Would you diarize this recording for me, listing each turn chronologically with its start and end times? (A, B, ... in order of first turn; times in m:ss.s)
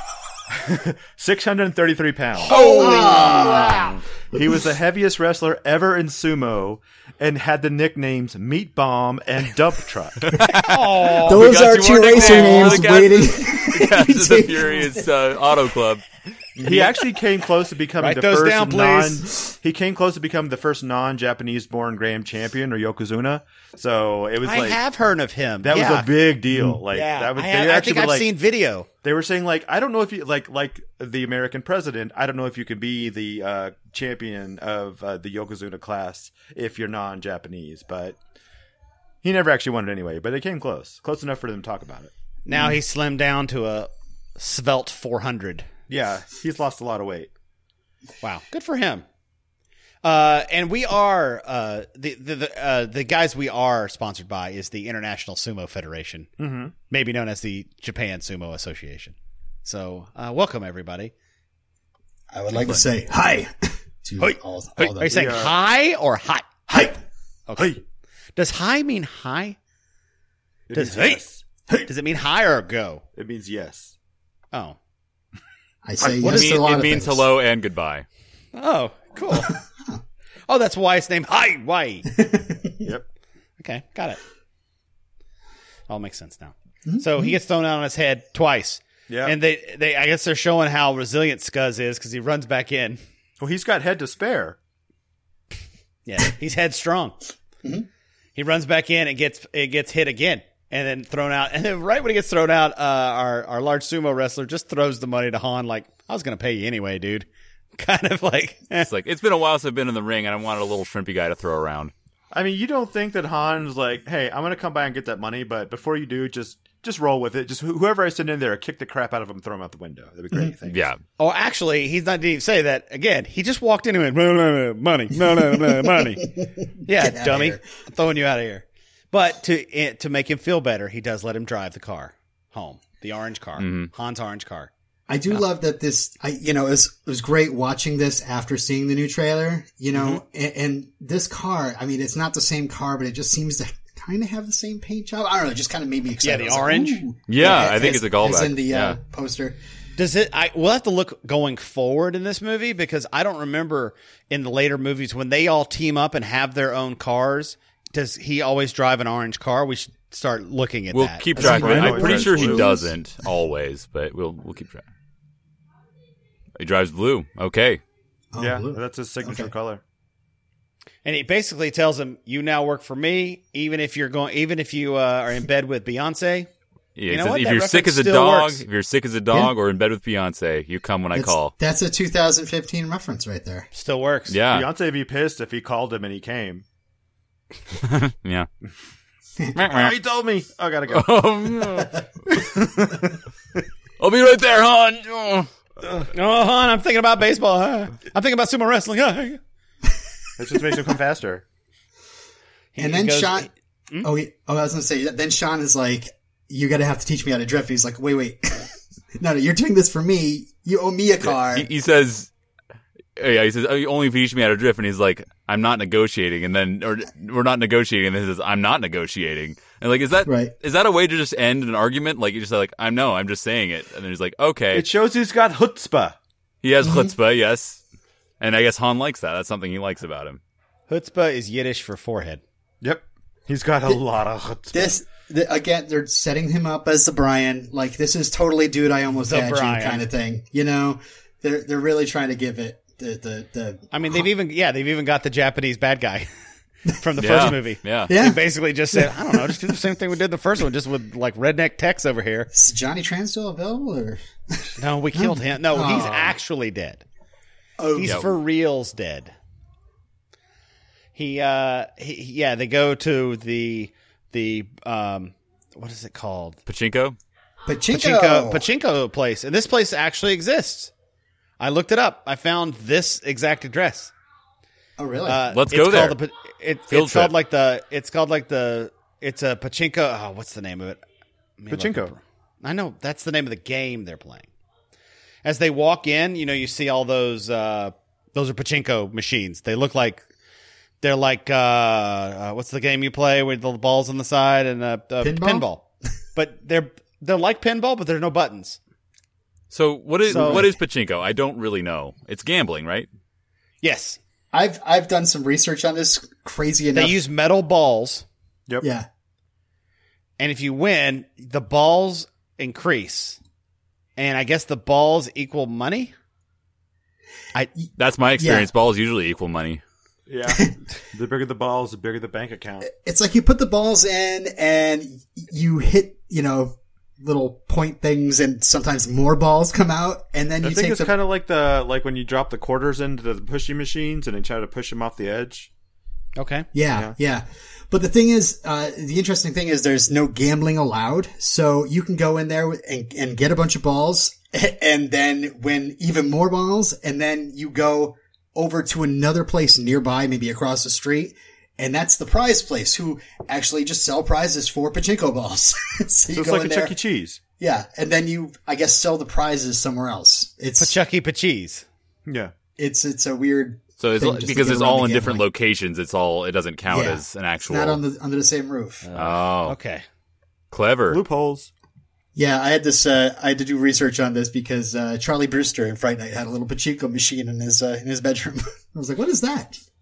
0:00.5-0:02.7 A
0:02.4-0:04.0 B
0:02.5-0:03.9 C
0:04.3-0:10.4 A
0:10.3-0:16.0 D
0:10.5-0:11.5 B
0:11.0-0:15.1 C
0:12.1-0:12.8 B
0:16.6-0:24.8 A
0:18.0-0:19.2 B
0:24.4-0:26.1 B
0:25.6-0:28.3 A
0:26.5-0:26.8 C
0:26.9-0:28.9 B
0:29.0-0:38.2 A
0:39.2-0:42.1 A
0:42.4-0:45.7 B
0:45.9-0:47.3 A
0:48.2-0:49.0 B
0:50.0-0:56.3 B
0:56.4-0:56.7 A
0:56.9-1:01.1 B
1:02.3-1:05.4 C
1:04.2-1:06.5 B
1:05.1-1:05.5 A
1:06.7-1:07.0 C
1:07.5-1:07.7 B
1:08.4-1:09.6 B
1:10.7-1:11.4 A
1:10.7-1:11.2 B
1:11.8-1:13.0 B
1:13.2-1:13.9 A
1:14.5-1:14.8 B
1:15.8-1:17.3 C
1:16.0-1:18.0 D
1:18.5-1:19.5 B
1:19.3-1:20.0 C
1:20.5-1:22.1 B
1:22.2-1:22.8 C
1:23.6-1:24.2 B
1:25.9-1:33.0 B
1:26.8-1:27.3 C
1:29.1-1:29.4 A
1:33.4-1:34.6 A
1:36.0-1:37.2 B
1:38.3-1:48.9 B
1:48.8-1:51.9 D
1:52.3-2:00.8 A
2:00.7-2:01.0 D
2:01.2-2:06.3 B
2:05.7-2:07.6 C
2:06.8-2:14.7 B
2:13.6-2:13.9 D
2:15.1-2:29.6 C
2:19.9-2:20.2 B
2:26.2-2:27.0 B
2:27.3-2:29.0 D
2:30.0-2:41.3 B
2:40.9-2:44.8 D
2:41.4-2:42.7 A
2:41.4-2:42.9 C
2:46.6-2:47.8 D
2:48.3-2:49.5 C
2:48.4-2:49.8 A
2:51.0-2:56.5 B
2:57.0-3:01.5 D
2:57.1-2:58.6 B
3:01.1-3:03.7 C
3:03.7-3:04.4 B
3:04.3-3:04.7 D
3:04.5-3:06.6 A
3:07.8-3:08.5 D
3:09.5-3:09.9 D
3:09.7-3:11.5 A
3:10.9-3:12.0 D
3:12.4-3:13.1 A
3:14.0-3:15.5 D
3:16.1-3:19.4 B
3:20.4-3:21.4 A
3:22.7-3:24.1 B
3:22.8-3:23.5 C
3:24.0-3:31.7 C
3:31.2-3:32.3 D
3:33.2-3:44.8 D
3:40.2-3:40.5 C
3:44.7-3:46.2 A
3:46.6-3:47.8 D
3:46.8-3:47.1 C
3:48.4-3:50.4 D
3:50.9-3:52.4 B
3:52.8-3:55.0 A
3:54.7-4:03.8 C
3:59.2-4:00.1 B
4:03.9-4:06.3 B
4:06.9-4:12.5 B
4:07.2-4:08.1 D
4:08.1-4:08.4 C
4:08.9-4:09.5 C
4:12.5-4:16.4 C
4:14.8-4:17.0 B
4:17.8-4:18.3 C
4:17.9-4:19.3 B
4:21.2-4:26.6 B
4:26.7-4:27.2 D
4:27.7-4:28.6 C
4:27.9-4:30.9 B
4:31.6-4:34.1 B
4:35.0-4:35.4 C
4:35.2-4:41.0 B
4:35.5-4:36.2 D
4:36.9-4:37.3 D
4:41.6-4:44.4 B
4:41.7-4:42.1 A
4:45.4-4:50.2 B
4:51.0-4:55.8 B
4:55.2-4:55.6 C
4:56.4-4:58.8 B
4:59.7-5:03.1 D
5:00.3-5:00.8 C
5:00.3-5:00.6 B
5:03.8-5:04.2 B
5:04.5-5:07.2 C
5:06.9-5:08.2 B
5:08.8-5:09.1 C
5:10.4-5:13.4 B
5:14.2-5:16.1 B
5:18.0-5:19.8 D
5:18.4-5:18.7 C
5:20.3-5:22.9 A
5:22.9-5:31.1 C
5:30.6-5:35.7 A
5:36.4-5:36.7 B
5:36.7-5:56.9 C
5:56.3-5:57.4 A
5:57.6-6:00.9 C
6:00.8-6:01.8 B
6:02.2-6:02.5 A
6:02.8-6:05.4 C
6:04.0-6:08.0 D
6:06.9-6:09.1 C
6:09.1-6:09.8 D
6:09.6-6:10.0 B
6:10.7-6:11.2 D
6:11.1-6:11.7 A
6:12.3-6:19.8 C